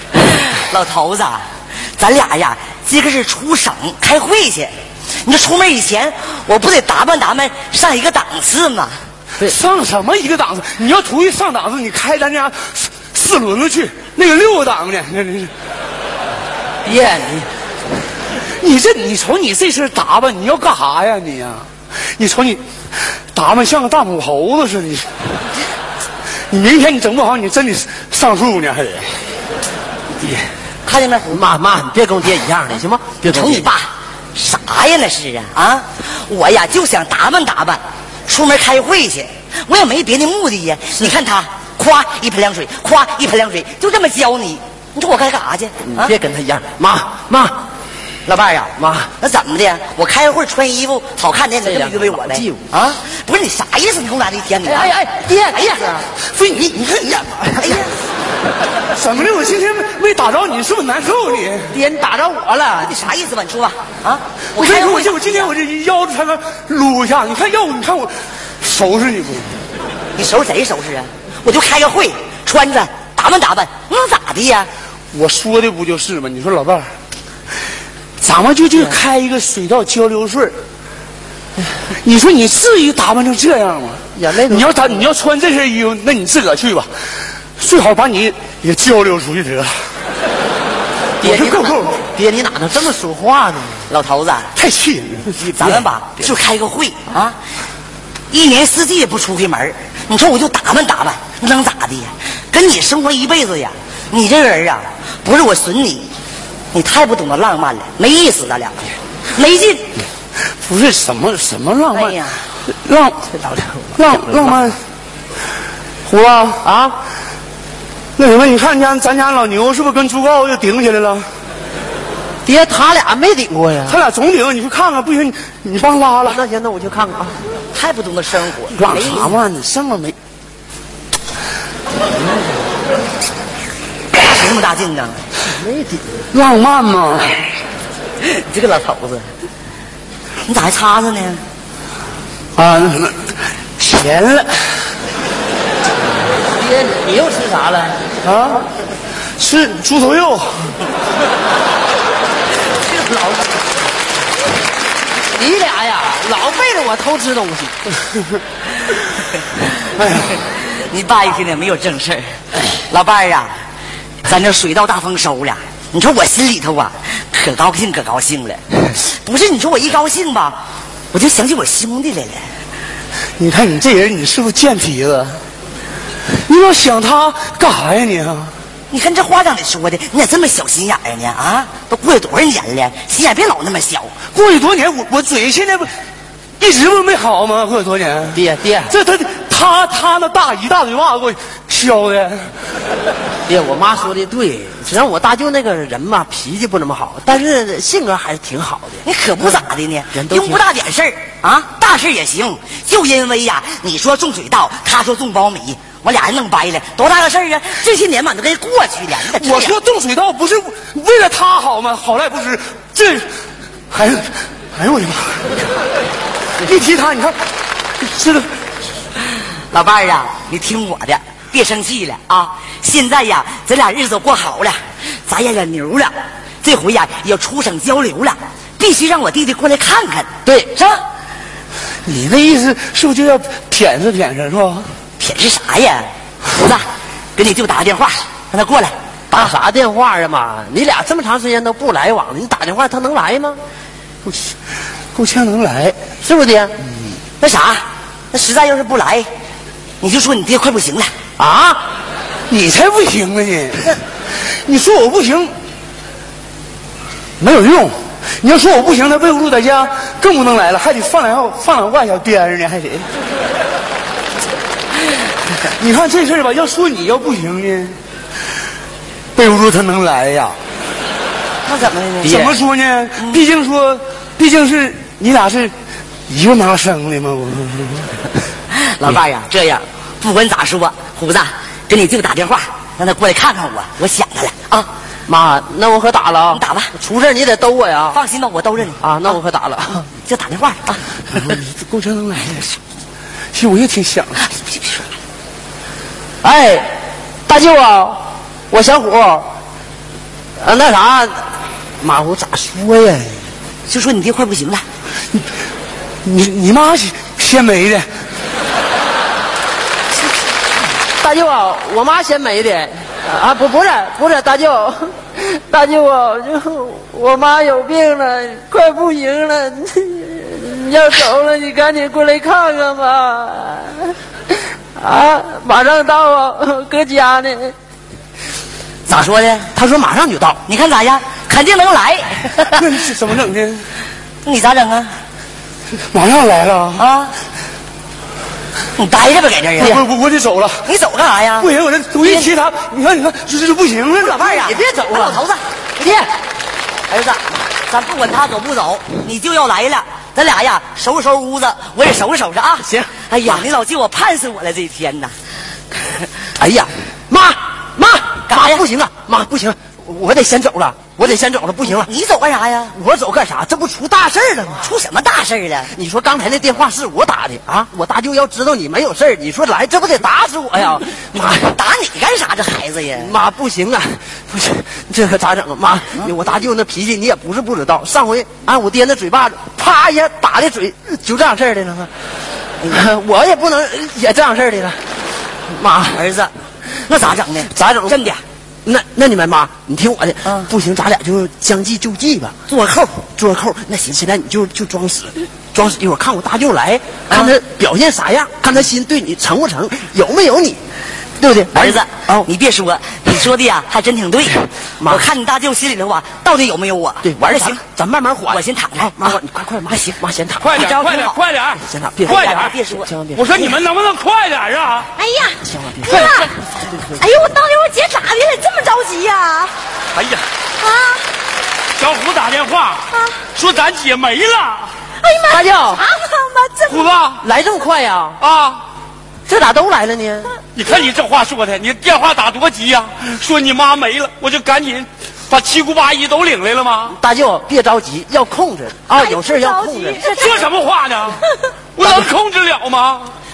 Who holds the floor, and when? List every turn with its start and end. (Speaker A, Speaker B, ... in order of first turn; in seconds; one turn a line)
Speaker A: 0.2-9.0
Speaker B: 9.4-15.5
Speaker C: 16.9-17.5
Speaker B: 18.6-22.6
Speaker B: 23.3-25.1
Speaker B: 26.5-29.1
Speaker A: 30.9-31.4
Speaker C: 31.3-33.7
Speaker A: 33.2-46.1
Speaker C: 45.8-47.6
Speaker A: 48.3-56.0
Speaker C: 48.8-49.1
Speaker C: 51.6-52.6
Speaker C: 54.7-57.9
Speaker A: 57.6-57.9
Speaker B: 58.9-61.8
Speaker C: 61.7-63.0
Speaker A: 62.8-65.5
Speaker B: 64.5-69.5
Speaker A: 70.2-74.7
Speaker B: 75.1-76.9
Speaker B: 78.2-80.6
Speaker B: 82.0-86.9
Speaker C: 84.2-85.0
Speaker B: 87.6-89.8
Speaker B: 91.2-92.0
Speaker C: 91.2-93.9
Speaker A: 93.9-94.5
Speaker B: 94.5-95.8
Speaker A: 95.5-97.4
Speaker A: 98.3-106.1
Speaker A: 106.7-109.9
Speaker B: 110.6-112.2
Speaker A: 111.9-112.5
Speaker B: 112.7-113.3
Speaker B: 114.0-114.8
Speaker B: 116.1-116.7
Speaker C: 116.6-117.0
Speaker B: 118.2-121.3
Speaker C: 122.5-124.0
Speaker B: 123.9-126.4
Speaker C: 126.3-127.3
Speaker A: 127.7-129.3
Speaker B: 128.7-130.2
Speaker A: 134.1-135.2
Speaker C: 135.5-136.0
Speaker B: 136.3-137.4
Speaker A: 138.2-139.3
Speaker A: 140.5-141.4
Speaker B: 142.6-144.8
Speaker C: 146.6-148.0
Speaker B: 148.2-148.7
Speaker B: 149.4-150.8
Speaker C: 155.3-158.0
Speaker B: 160.0-160.3
Speaker A: 160.4-162.3
Speaker A: 162.9-163.6
Speaker A: 164.2-170.6
Speaker A: 171.1-172.5
Speaker B: 173.4-175.4
Speaker B: 176.5-178.5
Speaker A: 178.9-184.1
Speaker B: 184.3-185.9
Speaker B: 186.6-192.5
Speaker C: 188.3-188.9
Speaker C: 193.5-199.5
Speaker A: 199.0-209.8
Speaker C: 200.1-200.6
Speaker B: 209.3-213.3
Speaker B: 213.9-215.5
Speaker B: 216.6-217.4
Speaker B: 218.0-218.5
Speaker A: 219.7-231.0
Speaker C: 230.5-230.7
Speaker B: 232.1-234.9
Speaker A: 235.2-238.9
Speaker C: 239.3-243.6
Speaker B: 245.2-246.0
Speaker C: 246.2-246.8
Speaker A: 247.4-249.3
Speaker A: 250.0-251.1
Speaker C: 251.4-251.8
Speaker B: 252.5-254.0
Speaker B: 254.7-255.5
Speaker B: 257.4-263.1
Speaker B: 265.7-268.0
Speaker B: 269.4-270.6
Speaker A: 271.6-272.6
Speaker B: 272.2-275.7
Speaker B: 276.3-278.1
Speaker A: 278.7-284.9
Speaker C: 285.3-288.2
Speaker A: 286.5-286.9
Speaker A: 288.1-289.0
Speaker C: 289.0-290.1
Speaker A: 290.2-291.0
Speaker B: 291.3-292.8
Speaker B: 293.5-294.4
Speaker A: 294.5-295.0
Speaker C: 296.4-296.9
Speaker C: 297.5-299.5
Speaker C: 300.6-301.5
Speaker C: 302.0-303.5
Speaker A: 303.9-304.9
Speaker B: 306.2-308.1
Speaker C: 311.2-324.2
Speaker C: 325.0-327.7
Speaker A: 329.1-329.7
Speaker C: 329.7-330.6
Speaker A: 330.7-332.9
Speaker B: 332.8-333.9
Speaker A: 334.4-335.2
Speaker B: 336.1-337.1
Speaker A: 337.0-337.4
Speaker A: 339.0-340.0
Speaker B: 339.8-340.9
Speaker A: 340.9-341.7
Speaker B: 341.6-344.5
Speaker A: 342.2-342.5
Speaker A: 344.2-345.6
Speaker C: 344.4-345.4
Speaker C: 346.0-346.3
Speaker A: 347.1-355.3
Speaker C: 356.6-362.1
Speaker A: 358.5-358.8
Speaker A: 361.9-363.0
Speaker C: 362.9-364.9
Speaker A: 364.8-365.9
Speaker C: 365.9-371.6
Speaker A: 371.3-373.3
Speaker C: 373.2-382.1
Speaker C: 382.8-385.0
Speaker C: 385.7-386.2
Speaker A: 386.1-388.4
Speaker C: 387.7-388.2
Speaker C: 388.9-392.6
Speaker A: 390.4-390.7
Speaker A: 392.7-393.2
Speaker C: 393.4-400.8
Speaker A: 401.4-407.8
Speaker C: 401.7-402.5
Speaker C: 405.0-405.3
Speaker C: 407.2-410.9
Speaker A: 408.5-409.3
Speaker A: 409.9-410.2
Speaker D: 410.6-412.7
Speaker A: 410.7-411.4
Speaker C: 411.8-413.7
Speaker A: 412.2-413.1
Speaker D: 413.3-415.1
Speaker E: 415.2-416.5
Speaker C: 415.7-416.4
Speaker E: 417.1-419.7
Speaker D: 420.1-420.4
Speaker E: 420.8-421.3
Speaker D: 422.0-423.0
Speaker E: 423.1-423.4
Speaker D: 423.6-424.9
Speaker E: 425.2-427.2
Speaker C: 425.5-426.1
Speaker D: 426.9-427.4
Speaker C: 427.4-428.4
Speaker D: 428.4-428.8
Speaker C: 429.5-430.5
Speaker D: 430.8-437.2
Speaker C: 437.1-440.4
Speaker E: 439.1-440.7
Speaker D: 440.2-441.4
Speaker D: 442.0-443.3